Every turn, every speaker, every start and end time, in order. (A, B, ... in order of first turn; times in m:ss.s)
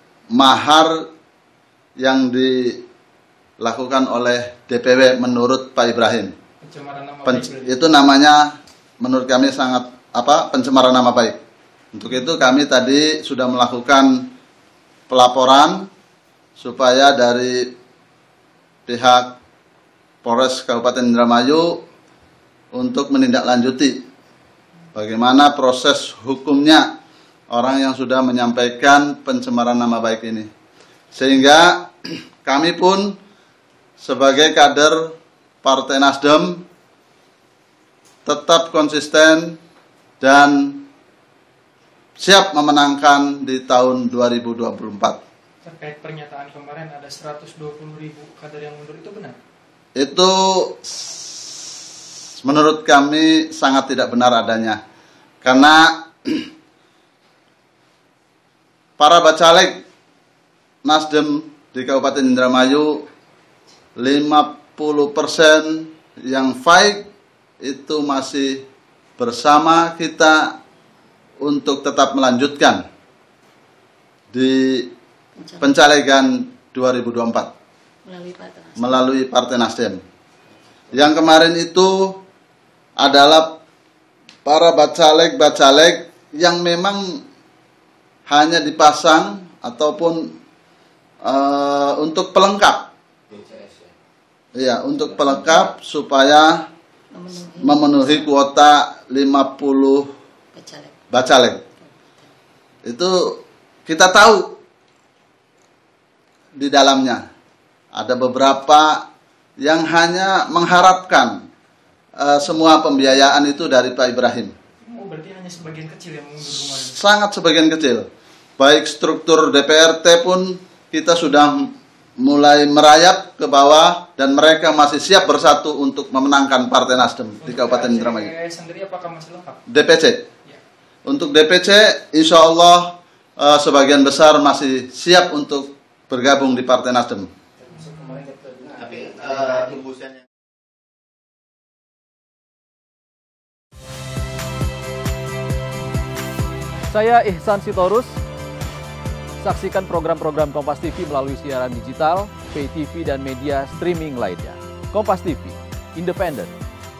0:00.3-0:01.0 A
0:02.0-0:02.8 A
0:03.6-0:06.3 A
0:06.6-0:07.7 B
0:07.2-0:11.4 A
0:11.9-0:14.3 A
0:15.1-0:15.9 A
0:16.6-0:17.7 A
0:18.8-0:19.4 A
0:20.2-0:21.8 A
0:22.7-0:24.0 A
0:24.9-0:26.9 A
0:27.5-0:30.5 A
0:31.1-0:33.2 A
0:34.0-0:36.6 A
0:38.2-0:39.6 A
0:40.2-0:40.9 A
0:42.2-0:45.2 A
0:45.6-0:49.4 B
0:50.0-0:51.8 A
0:52.4-0:54.8 A
0:55.4-0:56.5 A
0:59.0-0:59.8 A
1:00.8-1:03.0 A
1:04.0-1:07.0 A
1:07.6-1:08.6 A
1:09.2-1:10.5 A
1:11.4-1:12.8 A
1:14.3-1:14.9 A
1:15.4-1:15.8 C
1:15.6-1:17.5 A
1:18.0-1:19.1 C
1:18.8-1:20.0 A
1:20.9-1:22.2 A
1:23.0-1:23.6 A
1:24.4-1:27.2 A
1:28.3-1:30.3 A
1:31.2-1:32.9 A
1:33.3-1:33.8 D
1:34.6-1:36.6 A
1:37.1-1:38.3 C
1:37.6-1:40.1 A
1:40.5-1:41.0 C
1:41.1-1:41.6 A
1:41.8-1:42.3 C
1:42.8-1:44.6 A
1:46.5-1:47.2 A
1:47.9-1:49.0 A
1:49.6-1:51.4 A
1:52.2-1:54.5 A
1:54.8-1:57.0 B
1:56.6-1:58.1 A
1:58.6-2:08.3 A
2:07.4-2:09.6 B
2:09.7-2:10.2 A
2:11.0-2:17.3 A
2:17.7-2:20.1 D
2:26.9-2:28.2 E
2:29.4-2:36.5 E